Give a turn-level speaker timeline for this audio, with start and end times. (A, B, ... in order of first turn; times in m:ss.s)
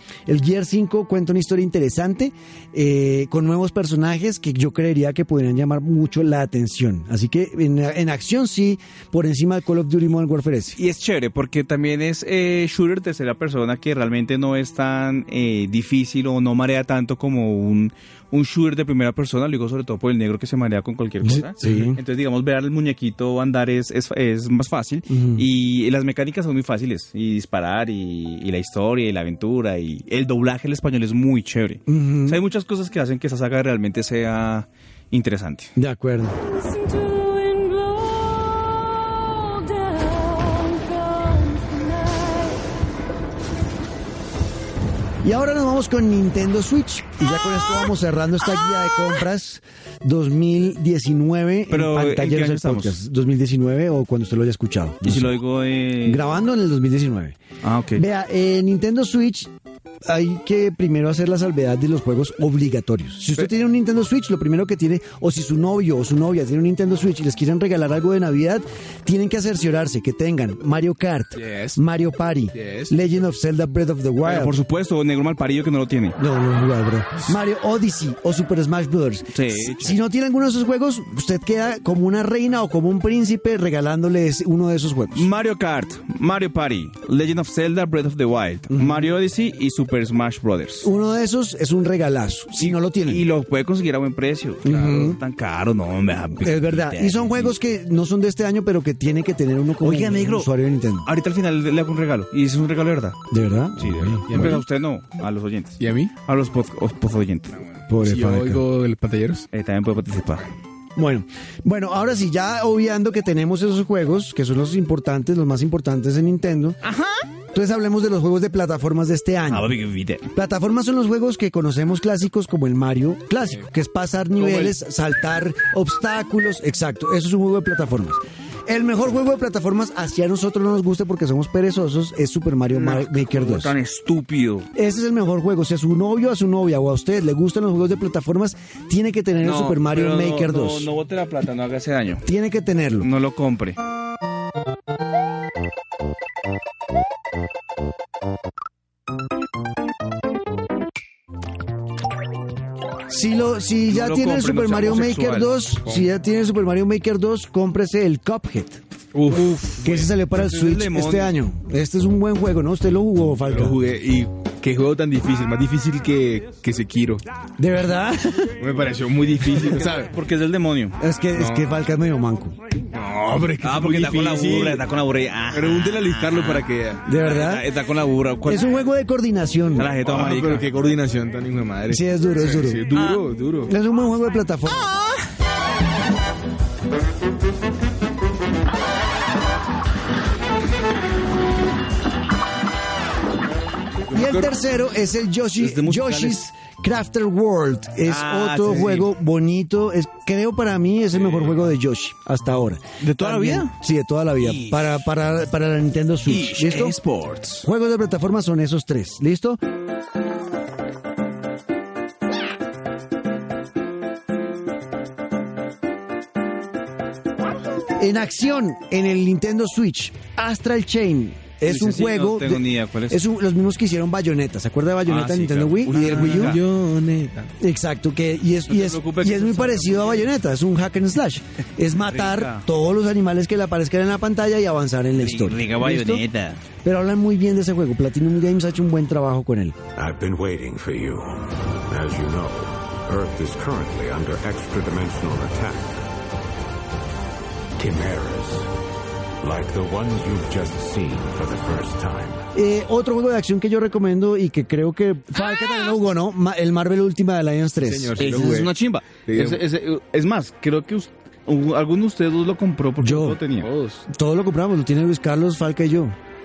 0:00.3-0:10.8 A
0:10.8-0:35.7 B
0:21.2-0:22.0 A
0:25.1-0:25.5 A
0:31.9-0:32.4 A
0:35.8-0:36.4 A
0:36.5-0:42.6 C
0:45.2-0:55.4 A
0:51.7-0:53.0 B
0:55.0-0:56.2 B
0:56.0-0:57.4 A
0:57.6-0:58.0 B
0:58.0-0:59.5 A
1:00.1-1:14.6 A
1:11.4-1:11.8 D
1:12.5-1:13.0 D
1:14.2-1:16.2 B
1:16.2-1:25.3 A
1:19.3-1:19.8 B
1:25.2-1:30.9 B
1:28.7-1:29.1 A
1:30.8-1:33.2 A
1:32.6-1:37.6 B
1:34.6-1:35.2 A
1:34.7-1:35.1 D
1:36.4-1:41.1 A
1:39.8-1:40.5 B
1:41.0-1:43.2 B
1:43.3-1:44.2 A
1:43.8-1:47.6 B
1:44.3-1:44.6 D
1:45.8-1:46.1 D
1:47.9-1:48.6 A
1:48.0-1:49.5 D
1:49.5-1:50.5 B
1:51.0-1:56.8 A
1:56.8-1:57.2 B
1:57.5-1:59.7 A
1:59.5-2:00.3 B
2:00.3-2:13.8 A
2:04.4-2:04.7 B
2:12.7-2:14.7 B
2:14.8-2:20.9 A
2:19.4-2:22.2 B
2:22.3-2:23.1 A
2:23.0-2:23.8 B
2:33.1-2:38.8 A
2:33.9-2:35.6 B
2:39.2-2:39.6 D
2:39.3-2:41.4 B
2:39.8-2:43.8 A
2:43.4-2:47.2 D
2:47.6-2:48.6 A
2:48.6-2:50.1 D
2:50.0-2:51.0 B
2:51.0-2:52.6 A
2:51.4-2:51.8 D
2:52.9-2:54.9 D
2:53.6-2:58.7 B
2:55.5-2:57.0 D
2:57.0-2:57.7 A
2:58.5-2:59.9 A
2:59.8-3:00.7 B
3:00.0-3:03.7 D
3:01.9-3:02.8 A
3:02.9-3:03.2 B
3:03.7-3:04.9 A
3:14.1-3:14.5 B
3:14.1-3:27.0 A
3:15.6-3:16.4 B
3:18.0-3:19.1 B
3:23.0-3:23.7 B
3:24.4-3:25.0 B
3:26.2-3:27.6 B
3:27.6-3:29.6 A
3:38.0-3:46.6 A
3:41.6-3:43.2 B
3:45.1-3:46.6 B
3:45.9-3:47.5 D
3:47.6-3:56.2 A
3:48.7-3:50.3 B
3:52.0-3:52.7 B
3:55.2-3:56.6 B
3:56.8-3:59.8 A
4:00.0-4:01.2 E
4:01.9-4:05.9 E
4:07.8-4:08.6 E
4:09.4-4:12.4 E
4:12.5-4:18.5 A
4:17.8-4:18.7 D
4:18.2-4:23.7 B
4:19.3-4:19.6 D
4:23.0-4:23.4 A
4:23.6-4:24.0 D
4:24.1-4:26.2 A